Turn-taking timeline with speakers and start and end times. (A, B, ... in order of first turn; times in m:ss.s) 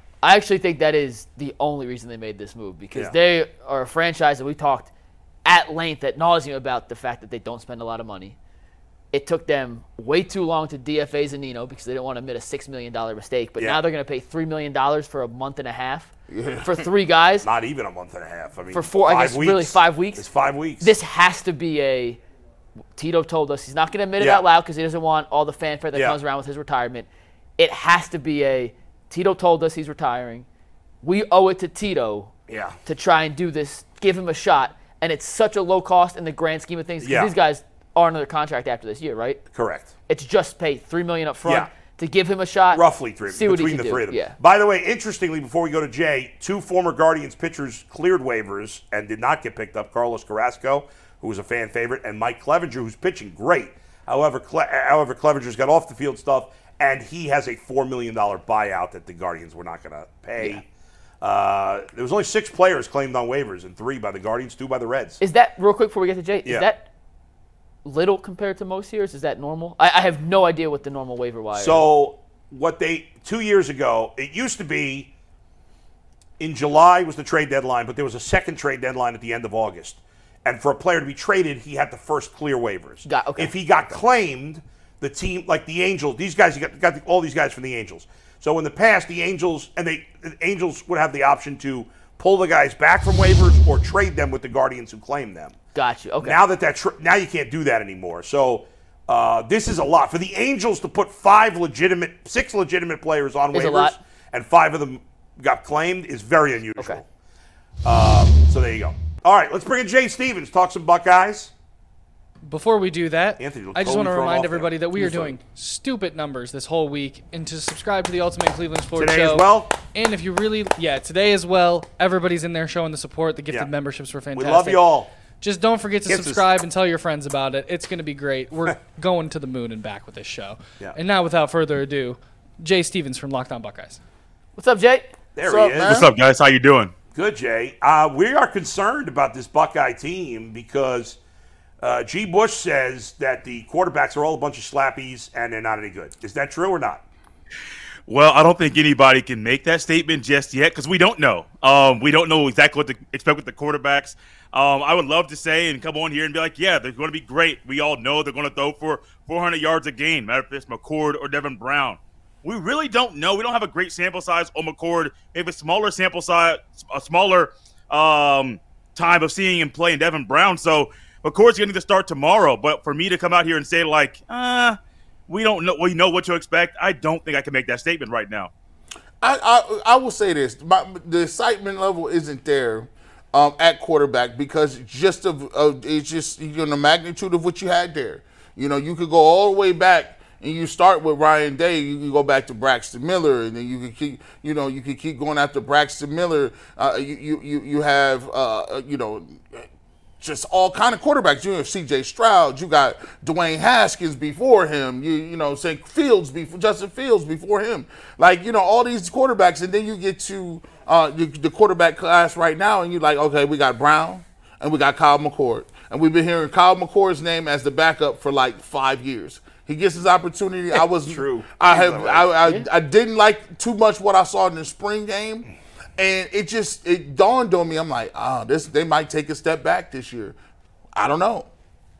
0:00.2-0:04.9 A
0:05.4-0:08.4 A
0:09.1-0:16.1 A
0:16.3-0:16.9 B
0:16.6-0:17.5 A
0:17.4-0:20.9 C
0:18.7-0:20.2 A
0:20.8-0:22.2 A
0:23.0-0:27.1 A
0:24.2-0:24.5 C
0:27.6-0:30.5 A
0:31.0-0:32.3 A
0:32.5-0:32.8 C
0:32.8-0:39.4 A
0:37.0-0:37.3 C
0:39.5-0:39.9 C
0:40.1-0:44.4 A
0:41.4-0:41.7 C
0:42.7-1:00.6 C
1:01.2-1:05.2 C
1:05.2-1:06.9 A
1:07.8-1:11.8 A
1:11.5-1:15.1 C
1:16.4-1:35.6 C
1:23.0-1:23.5 A
1:35.8-1:36.4 A
1:36.2-1:47.1 C
1:43.5-1:44.0 A
1:47.8-1:51.5 C
1:52.5-2:04.8 D
1:53.4-1:55.4 C
1:59.0-1:59.8 C
2:04.3-2:05.1 C
2:05.4-2:14.0 D
2:06.1-2:06.4 C
2:14.6-2:15.1 A
2:15.4-2:16.1 C
2:15.4-2:16.1 B
2:15.8-2:16.9 E
2:17.1-2:21.2 C
2:21.8-2:27.0 C
2:28.1-2:54.8 E
2:55.3-2:58.5 E
2:59.2-3:19.7 B
3:20.2-3:50.4 B
3:41.0-3:42.3 C
3:51.0-3:51.5 B